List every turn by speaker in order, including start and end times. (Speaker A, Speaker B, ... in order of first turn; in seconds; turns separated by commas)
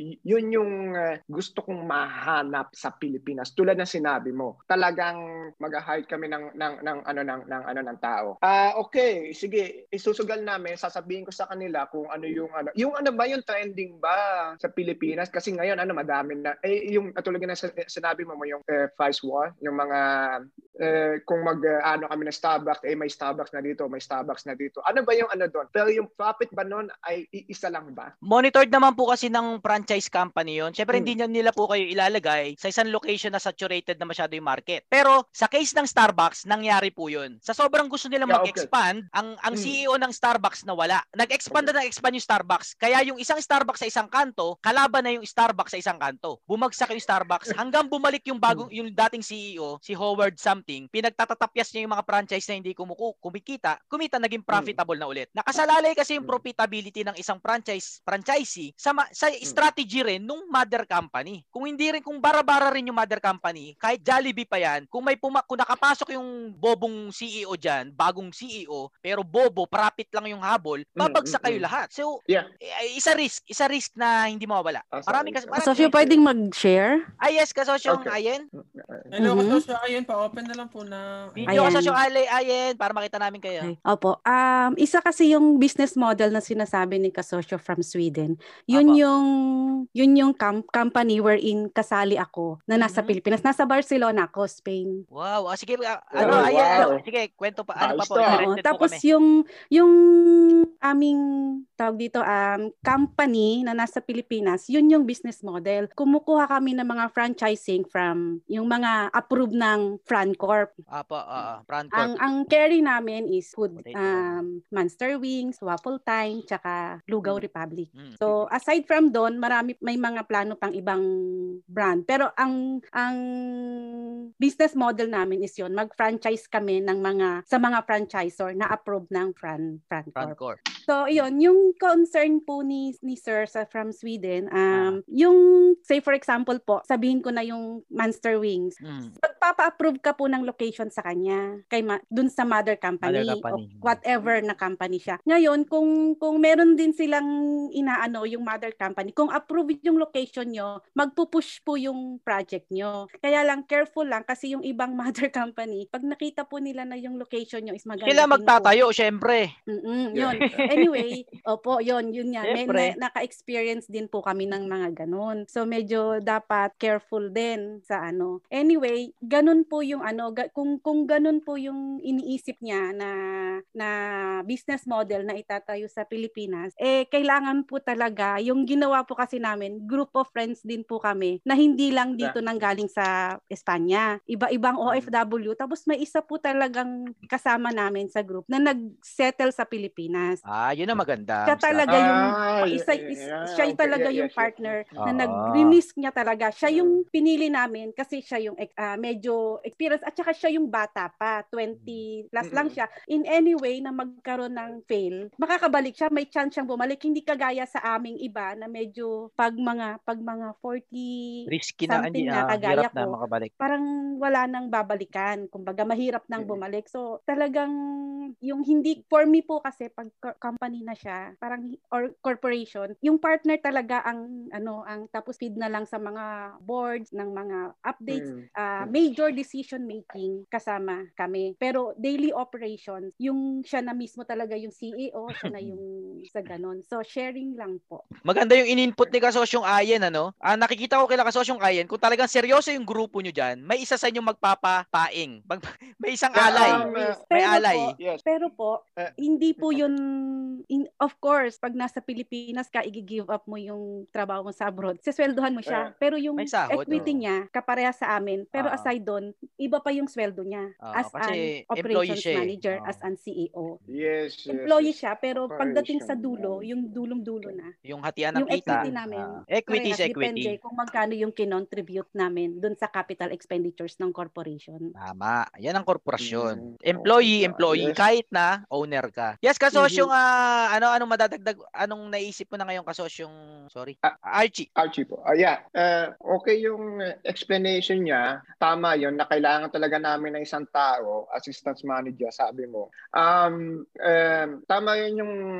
Speaker A: 0.3-0.7, Speaker A: 1.3-28.1, Speaker B: 28.2-72.1, Speaker A: 38.3-38.7, Speaker A: 54.5-54.8, Speaker A: 71.0-71.7, Speaker B: 72.8-76.0, Speaker A: 74.9-76.2, Speaker C: 75.5-77.0, Speaker B: 77.2-78.4, Speaker A: 77.9-79.1, Speaker D: 79.1-81.7, Speaker C: 79.2-79.6, Speaker B: 81.4-83.7, Speaker C: 81.5-82.0, Speaker C: 83.6-89.2, Speaker B: 88.7-89.0, Speaker C: 90.0-95.0, Speaker B: 92.8-93.1, Speaker B: 95.1-99.0, Speaker A: 96.2-97.0, Speaker A: 97.8-98.4, Speaker C: 98.2-101.2, Speaker C: 101.8-110.7, Speaker B: 110.9-112.2, Speaker C: 111.9-121.0, Speaker B: 113.8-114.4, Speaker B: 117.9-118.3, Speaker C: 121.7-123.2, Speaker C: 124.4-130.3, Speaker B: 130.2-130.6, Speaker C: 130.9-147.2, Speaker B: 134.7-135.0, Speaker B: 138.8-139.2, Speaker B: 143.0-144.0, Speaker C: 147.8-158.7, Speaker B: 158.0-159.5, Speaker C: 159.7-173.1, Speaker A: 160.2-160.6, Speaker B: 160.4-161.0, Speaker B: 162.4-162.9, Speaker C: 174.5-190.4, Speaker B: 190.5-192.0, Speaker C: 191.4-211.1, Speaker A: 191.9-194.7, Speaker B: 195.0-195.8, Speaker A: 196.7-196.9, Speaker B: 201.8-202.0, Speaker A: 202.5-202.8, Speaker B: 211.5-213.5, Speaker C: 211.9-217.7, Speaker C: 218.5-238.0, Speaker A: 228.1-228.9, Speaker B: 238.3-247.9, Speaker A: 246.3-247.2, Speaker C: 246.5-250.0, Speaker A: 247.9-248.2, Speaker A: 249.0-249.9, Speaker C: 250.7-263.8, Speaker B: 256.4-257.2, Speaker B: 258.5-258.9, Speaker B: 260.8-263.0, Speaker A: 263.9-266.7, Speaker C: 264.5-267.7, Speaker B: 267.8-270.6, Speaker C: 268.3-274.9, Speaker B: 275.0-284.7, Speaker A: 276.2-278.0, Speaker C: 279.7-280.1, Speaker A: 284.8-295.3